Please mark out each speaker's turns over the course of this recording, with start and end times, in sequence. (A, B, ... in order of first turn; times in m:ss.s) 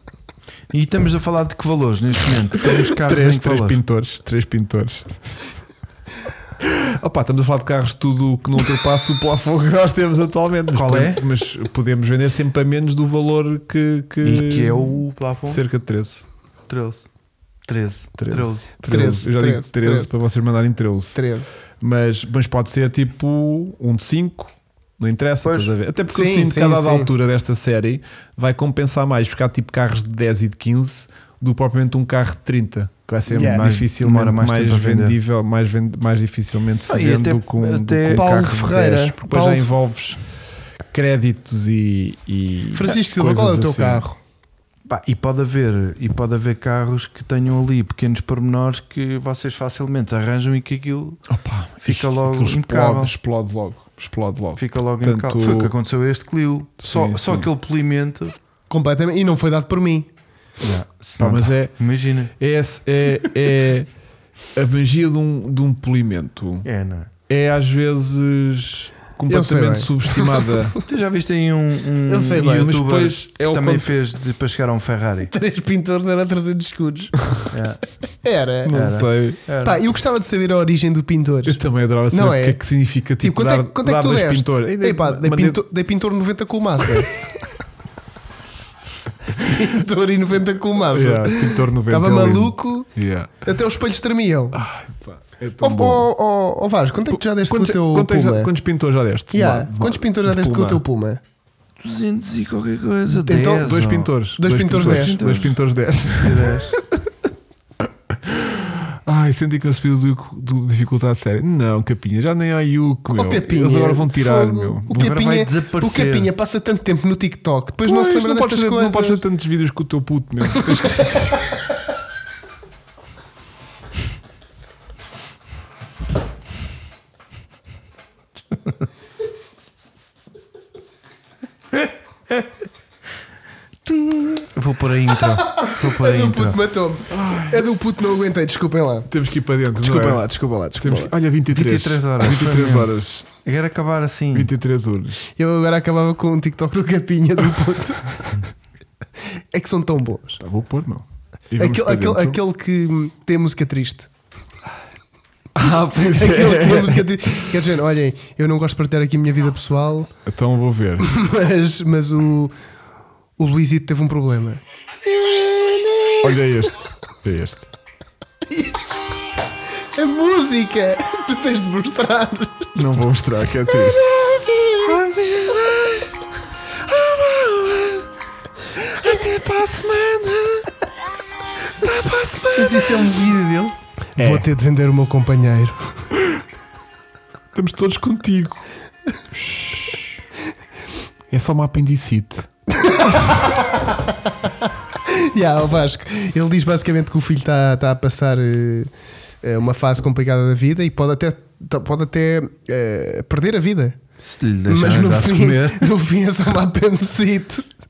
0:00.7-0:03.8 A
0:02.6-0:05.2 B
0:06.6-0:16.2 B
0:10.7-0:11.2 A
0:14.2-0:15.6 A
0:16.7-0:17.0 A
0:17.6-0:18.7 A
0:18.2-0:21.2 B
0:18.8-0:20.1 C
0:21.1-0:21.5 C
0:21.8-0:40.2 B
0:25.4-0:25.7 A
0:26.1-0:27.1 C
0:33.3-0:33.7 C
0:33.5-0:35.2 A
0:36.9-0:38.3 A
0:38.1-0:39.7 C
0:40.9-0:44.0 B
0:42.7-0:44.2 C
0:44.9-0:51.2 A
0:51.3-0:55.7 B
0:51.8-0:53.1 A
0:54.6-0:58.3 A
0:56.8-0:57.5 B
0:58.7-1:00.1 C
1:00.6-1:02.3 A
1:01.2-1:01.8 B
1:02.4-1:03.9 B
1:04.5-1:06.6 B
1:06.6-1:07.1 A
1:07.3-1:10.8 B
1:09.3-1:10.5 C
1:10.8-1:15.3 A
1:12.1-1:12.8 C
1:12.3-1:13.9 B
1:15.3-1:17.4 C
1:17.5-1:17.8 A
1:18.1-1:18.7 C
1:18.6-1:19.4 B
1:18.7-1:19.8 A
1:19.6-1:21.6 C
1:21.4-1:25.6 B
1:22.1-1:22.6 C
1:23.2-1:27.1 C
1:29.3-1:32.9 C
1:30.9-1:33.4 B
1:33.4-1:34.6 C
1:34.5-1:36.1 B
1:35.6-1:38.5 C
1:37.1-1:40.1 B
1:39.3-1:41.2 C
1:40.3-1:40.8 A
1:41.8-1:44.1 A
1:43.2-1:46.9 B
1:43.3-1:43.6 C
1:44.4-1:45.2 C
1:44.7-1:46.7 A
1:48.1-1:55.4 B
1:53.1-1:59.2 C
1:54.9-1:56.3 A
1:57.8-2:01.4 B
2:00.8-2:01.2 C
2:13.8-2:16.6 A
2:15.4-2:19.1 C
2:17.1-2:17.6 B
2:19.1-2:20.2 B
2:19.8-2:21.1 C
2:20.8-2:23.3 B
2:21.5-2:24.5 A
2:24.3-2:25.2 B
2:25.4-2:28.3 C
2:29.5-2:30.4 C
2:30.4-2:32.4 B
2:31.6-2:34.1 C
2:35.5-2:37.4 B
2:36.1-2:40.1 C
2:40.2-2:41.1 B
2:41.0-2:42.5 C
2:43.4-2:46.4 C
2:46.2-2:47.7 B
2:48.5-2:48.7 C
2:49.9-2:52.7 C
2:52.7-2:54.1 B
2:53.7-2:54.9 C
2:54.8-2:56.1 B
2:56.7-2:58.1 B
2:58.7-3:00.7 B
3:01.8-3:03.1 B
3:02.5-3:03.8 A
3:04.2-3:06.0 C
3:04.2-3:04.4 B
3:07.5-3:08.6 B
3:09.3-3:10.2 B
3:11.3-3:12.5 B
3:12.7-3:18.9 C
3:19.4-3:24.0 C
3:24.2-3:25.9 A
3:24.6-3:27.7 C